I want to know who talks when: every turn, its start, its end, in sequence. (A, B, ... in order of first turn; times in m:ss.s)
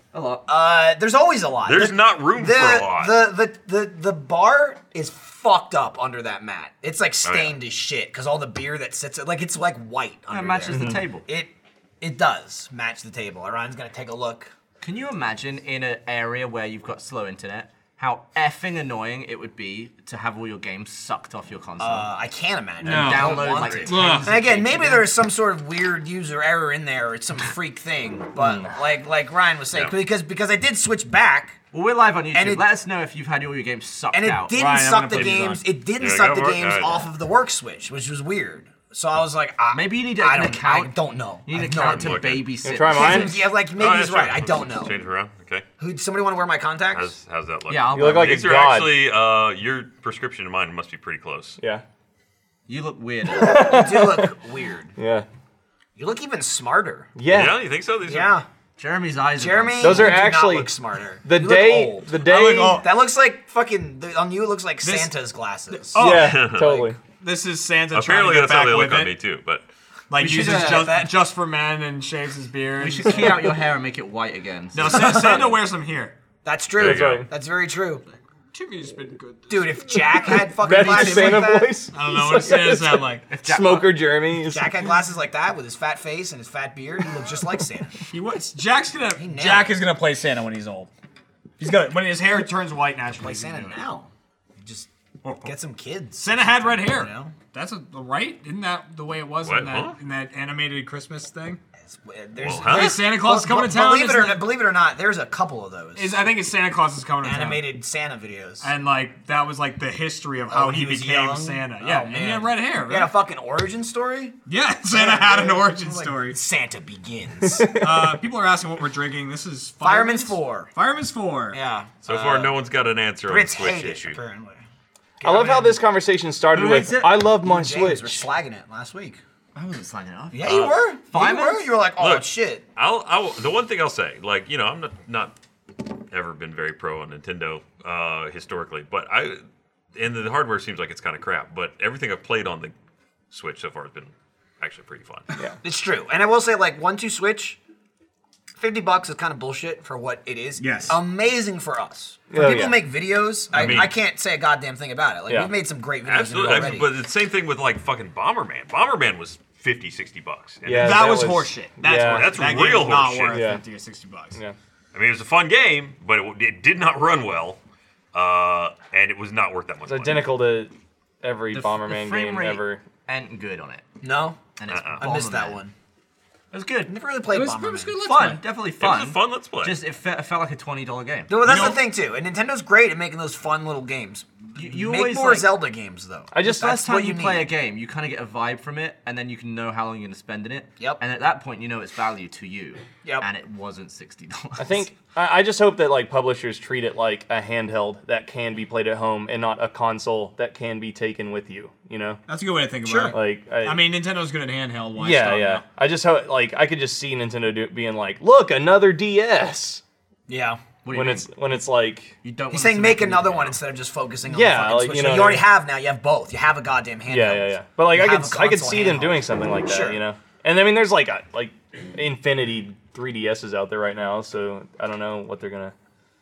0:00.1-0:00.4 A
0:00.5-0:14.5 B
0:01.7-0:03.2 C
0:07.2-0:07.6 C
0:10.3-0:11.3 A
0:10.7-0:11.0 D
0:14.8-0:22.1 A
0:21.8-0:31.6 B
0:22.8-0:24.3 E
0:22.8-0:25.1 A
0:22.9-0:23.9 C
0:28.4-0:28.7 D
0:31.7-0:34.6 A
0:32.3-0:32.7 B
0:34.1-0:45.0 B
0:34.5-0:35.6 E
0:36.0-0:37.1 C
0:39.7-0:43.3 A
0:41.7-0:42.4 C
0:42.6-0:43.4 D
0:43.8-0:45.7 C
0:45.8-0:47.1 B
0:46.9-0:51.6 C
0:47.7-0:48.3 A
0:47.9-0:49.0 D
0:51.6-0:51.8 D
0:52.7-0:53.6 A
0:53.3-0:54.4 D
0:53.5-0:54.9 B
0:55.0-0:55.3 D
0:56.0-0:57.1 B
0:57.2-0:57.6 D
0:57.3-0:58.4 C
0:58.0-0:58.5 B
0:58.8-1:00.3 A
0:59.4-1:02.2 B
0:59.8-1:00.7 D
1:01.2-1:02.8 D
1:02.2-1:02.9 E
1:02.8-1:06.9 B
1:04.8-1:05.1 E
1:05.7-1:09.2 E
1:06.0-1:07.0 D
1:06.1-1:06.8 C
1:07.9-1:09.7 C
1:10.1-1:13.6 E
1:10.2-1:11.0 A
1:10.2-1:11.2 B
1:12.8-1:15.4 A
1:14.7-1:16.2 E
1:14.8-1:15.6 B
1:16.4-1:18.0 B
1:16.8-1:17.2 C
1:16.8-1:17.3 D
1:18.5-1:20.3 E
1:19.5-1:21.8 B
1:20.2-1:24.8 D
1:20.7-1:21.3 A
1:21.9-1:23.3 E
1:23.3-1:24.0 A
1:24.4-1:28.0 B
1:28.0-1:30.9 E
1:29.2-1:29.9 B
1:31.6-1:33.9 E
1:33.2-1:34.1 B
1:34.6-1:34.9 B
1:35.2-1:35.5 E
1:35.4-1:37.4 B
1:36.2-1:41.6 E
1:39.4-1:40.0 C
1:41.8-1:46.4 B
1:42.4-1:43.1 C
1:42.6-1:44.5 E
1:46.0-1:47.7 E
1:47.2-1:48.7 B
1:48.6-1:53.1 E
1:50.5-1:54.4 B
1:54.5-1:56.4 E
1:54.9-1:57.9 B
1:57.4-1:58.1 D
1:57.7-2:01.6 E
1:59.8-2:00.7 B
2:01.5-2:02.6 B
2:02.0-2:04.2 C
2:03.3-2:04.6 B
2:05.2-2:05.8 B
2:05.2-2:08.3 D
2:06.5-2:07.2 A
2:07.4-2:09.2 B
2:09.6-2:11.8 A
2:10.3-2:12.6 B
2:10.4-2:10.8 C
2:12.0-2:15.4 C
2:16.1-2:19.4 C
2:20.0-2:22.7 C
2:23.3-2:25.3 C
2:25.6-2:27.6 B
2:28.6-2:36.9 B
2:30.6-2:31.0 E
2:32.3-2:32.8 D
2:33.5-2:33.9 C
2:33.6-2:33.9 E
2:35.3-2:35.5 D
2:36.0-2:41.3 C
2:40.6-2:42.4 D
2:40.7-2:44.4 E
2:42.0-2:43.4 C
2:43.3-2:43.6 D
2:44.9-2:47.6 C
2:48.1-2:50.4 C
2:49.9-2:52.8 D
2:51.5-2:53.9 A
2:54.0-2:54.4 B
2:54.6-2:55.6 A
2:54.7-2:55.0 C
2:55.0-2:55.7 B
2:56.5-2:57.0 A
2:56.9-2:58.0 B
2:57.3-2:58.4 E
2:58.0-3:01.7 A
2:58.8-2:59.8 C
3:01.3-3:07.5 B
3:01.4-3:01.8 E
3:04.6-3:05.6 A
3:06.3-3:06.8 D
3:06.4-3:14.9 A
3:14.6-3:22.2 D
3:22.3-3:25.6 E
3:22.8-3:23.2 B
3:23.1-3:23.9 D
3:25.0-3:29.8 D
3:30.3-3:30.6 B
3:30.8-3:31.3 A
3:30.9-3:32.2 D
3:32.2-3:33.6 A
3:32.5-3:40.0 B
3:34.3-3:35.5 D
3:37.1-3:45.7 D